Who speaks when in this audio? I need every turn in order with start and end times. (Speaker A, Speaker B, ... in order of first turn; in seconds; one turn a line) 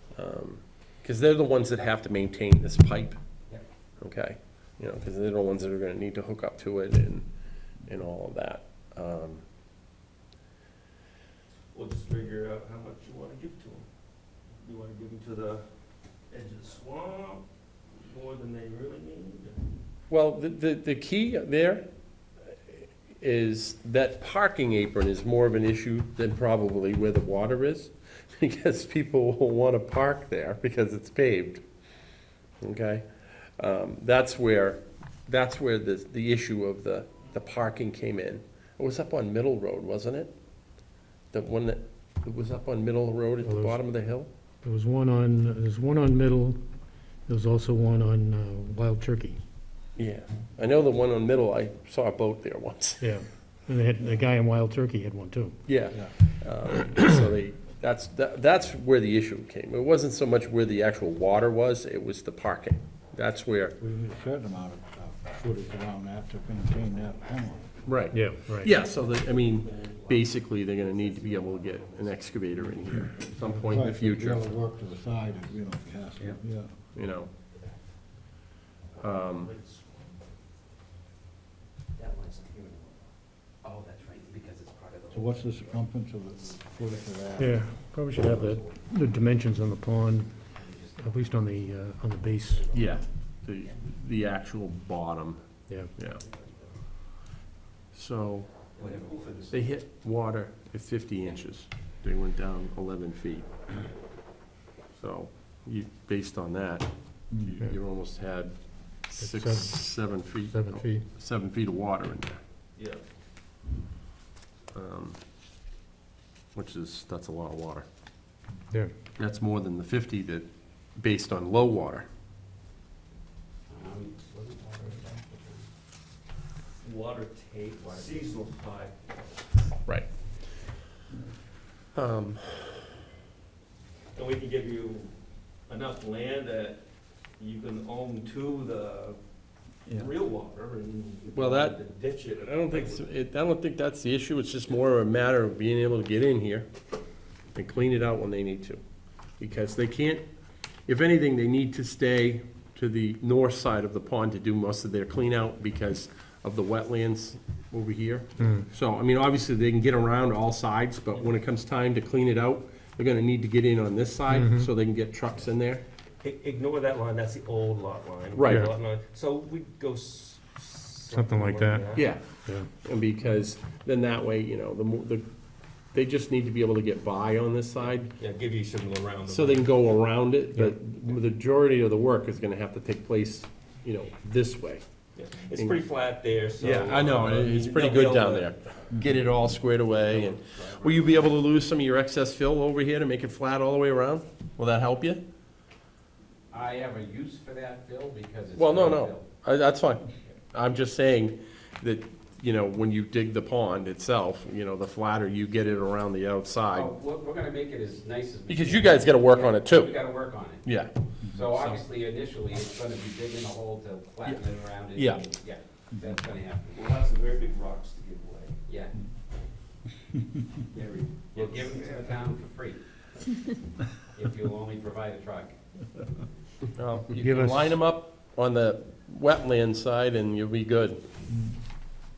Speaker A: 0.1-3.2
Speaker A: 4.0-7.3
Speaker A: 7.9-9.4
Speaker B: 11.7-13.8
Speaker B: 14.6-15.6
Speaker B: 16.3-19.6
Speaker A: 20.1-21.8
Speaker A: 22.5-31.6
Speaker A: 32.6-40.3
Speaker A: 41.3-44.3
Speaker C: 43.4-43.9
Speaker C: 44.6-46.6
Speaker C: 47.3-49.4
Speaker A: 50.0-53.0
Speaker C: 53.0-55.6
Speaker A: 55.6-63.8
Speaker D: 63.8-67.7
Speaker A: 67.8-74.6
Speaker C: 68.1-68.8
Speaker B: 68.8-73.0
Speaker C: 73.5-73.8
Speaker D: 73.6-76.7
Speaker A: 76.9-77.3
Speaker B: 79.0-80.2
Speaker A: 79.0-79.5
Speaker E: 82.0-83.0
Speaker E: 83.6-85.8
Speaker D: 85.1-87.7
Speaker C: 87.4-90.4
Speaker E: 88.1-88.8
Speaker E: 90.4-91.5
Speaker C: 91.0-92.8
Speaker E: 92.3-93.0
Speaker A: 92.7-95.4
Speaker C: 95.7-95.9
Speaker A: 95.9-96.2
Speaker A: 97.9-98.5
Speaker B: 98.8-99.6
Speaker E: 98.8-99.5
Speaker A: 99.5-103.6
Speaker A: 105.0-108.5
Speaker A: 109.1-112.4
Speaker C: 109.2-111.0
Speaker B: 112.8-113.0
Speaker A: 114.7-115.2
Speaker A: 116.5-117.8
Speaker A: 119.2-122.0
Speaker E: 123.7-125.7
Speaker B: 126.8-129.2
Speaker E: 127.9-128.3
Speaker A: 131.9-132.8
Speaker B: 134.1-135.1
Speaker B: 135.7-136.8
Speaker B: 137.4-139.2
Speaker B: 139.8-143.1
Speaker A: 141.3-141.8
Speaker A: 142.4-146.7
Speaker A: 147.5-148.8
Speaker A: 149.4-150.2
Speaker A: 150.9-165.8
Speaker C: 158.4-158.7
Speaker C: 164.3-164.7
Speaker B: 166.2-172.1
Speaker A: 168.3-168.7
Speaker C: 171.1-172.7
Speaker A: 171.9-175.2
Speaker A: 175.9-178.1
Speaker B: 178.2-179.8
Speaker A: 179.3-184.8
Speaker B: 185.2-188.5
Speaker A: 185.5-185.8
Speaker A: 186.6-195.2
Speaker E: 190.1-191.0
Speaker E: 196.5-199.3
Speaker A: 198.5-206.9
Speaker E: 206.7-210.7
Speaker A: 208.5-210.0
Speaker A: 210.6-211.8
Speaker E: 211.2-216.9
Speaker A: 214.9-215.2
Speaker B: 216.7-218.6
Speaker E: 218.7-218.9
Speaker B: 220.7-222.2
Speaker E: 221.3-222.8
Speaker E: 224.1-225.5
Speaker A: 226.7-231.0
Speaker C: 227.2-227.8